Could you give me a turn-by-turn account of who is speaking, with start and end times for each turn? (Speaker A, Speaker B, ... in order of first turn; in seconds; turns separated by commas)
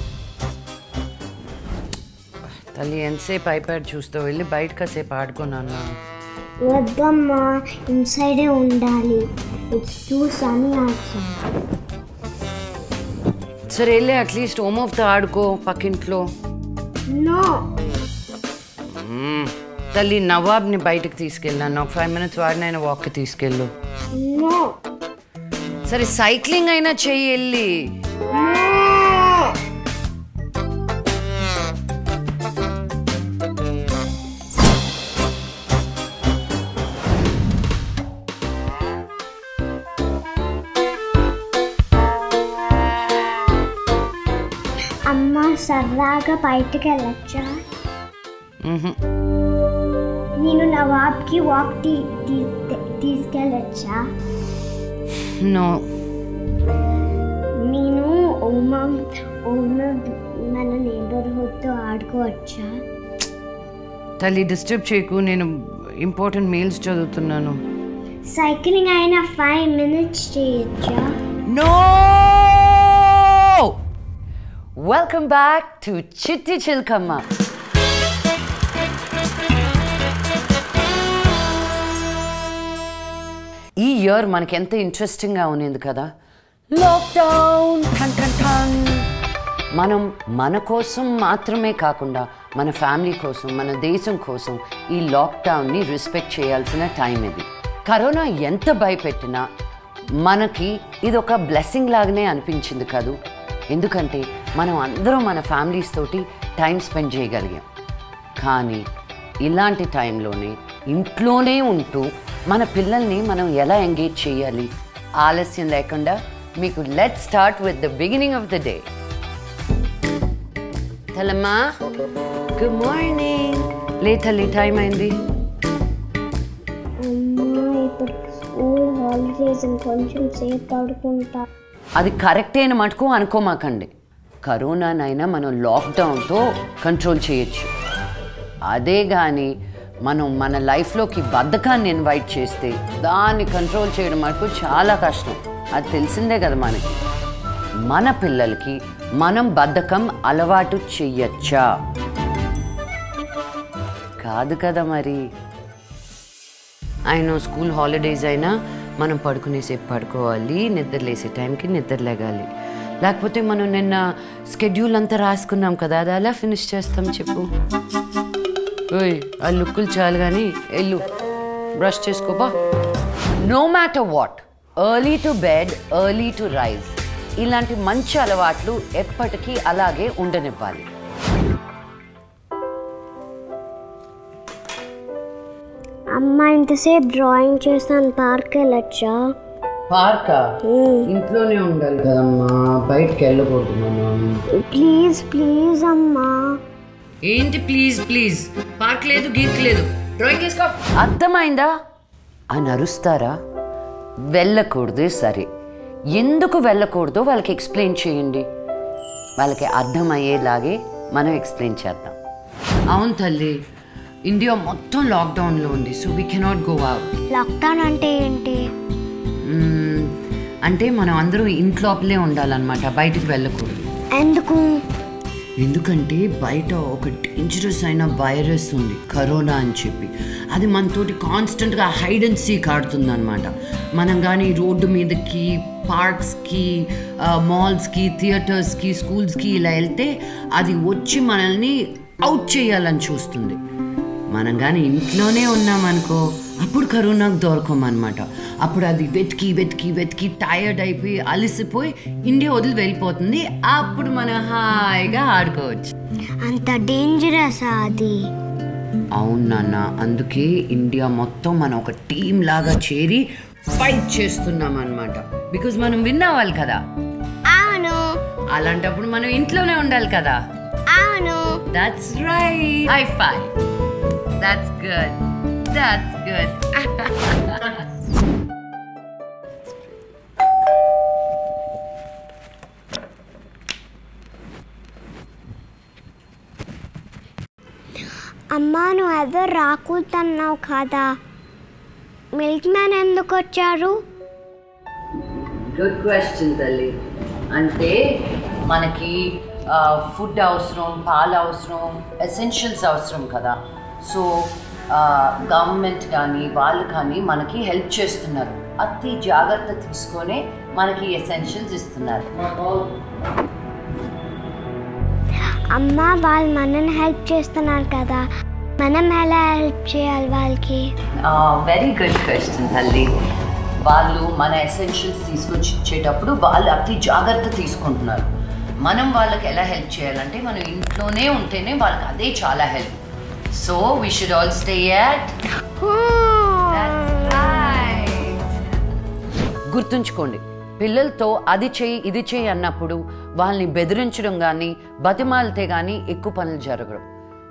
Speaker A: 2.5-5.9, Speaker B: 6.6-11.4, Speaker A: 13.7-16.2, Speaker B: 17.1-17.7, Speaker A: 18.9-23.7, Speaker B: 24.1-24.8, Speaker A: 25.9-27.8, Speaker B: 28.3-29.6, Speaker B: 45.1-47.6, Speaker A: 48.6-49.0, Speaker B: 50.4-54.1, Speaker A: 55.2-55.9, Speaker B: 57.6-62.8, Speaker A: 64.2-67.6, Speaker B: 68.3-71.2, Speaker A: 71.5-73.8, Speaker A: 74.8-77.3, Speaker A: 83.8-86.1, Speaker A: 86.7-89.1, Speaker A: 89.7-99.5, Speaker A: 100.2-103.2, Speaker A: 103.7-107.7, Speaker A: 108.4-108.9, Speaker A: 109.4-118.9, Speaker A: 121.1-121.7, Speaker A: 122.6-125.2, Speaker B: 127.0-131.4, Speaker A: 132.0-133.9, Speaker A: 134.4-137.7, Speaker A: 138.7-139.5, Speaker A: 140.1-147.0, Speaker A: 147.9-151.7, Speaker A: 154.2-155.3, Speaker A: 157.1-162.5, Speaker A: 163.0-167.5, Speaker A: 168.9-171.1, Speaker A: 171.8-172.5, Speaker A: 173.4-180.9, Speaker B: 186.1-189.3, Speaker A: 189.9-194.4, Speaker B: 190.6-191.1, Speaker B: 194.5-196.6, Speaker A: 197.2-201.7, Speaker A: 202.5-203.4, Speaker A: 204.3-205.5, Speaker A: 206.1-208.5, Speaker A: 209.4-212.2, Speaker A: 212.9-213.6, Speaker A: 214.3-217.1, Speaker B: 217.3-218.6, Speaker A: 219.4-220.1, Speaker A: 220.7-223.9, Speaker B: 224.1-224.7, Speaker A: 225.6-243.6, Speaker A: 244.3-255.9, Speaker B: 256.4-258.3, Speaker A: 259.1-266.8, Speaker B: 267.5-268.1, Speaker A: 268.5-270.4, Speaker B: 270.9-271.6, Speaker A: 271.7-273.5, Speaker A: 274.4-277.8, Speaker B: 288.5-291.2, Speaker B: 292.4-294.0, Speaker A: 295.3-296.9, Speaker A: 297.5-298.0, Speaker A: 298.6-313.0, Speaker B: 315.7-318.3, Speaker B: 318.8-320.9, Speaker A: 321.2-323.1, Speaker A: 323.8-328.3, Speaker A: 328.8-333.0, Speaker A: 333.5-335.4, Speaker B: 335.8-336.6, Speaker A: 336.6-338.8, Speaker A: 339.7-347.1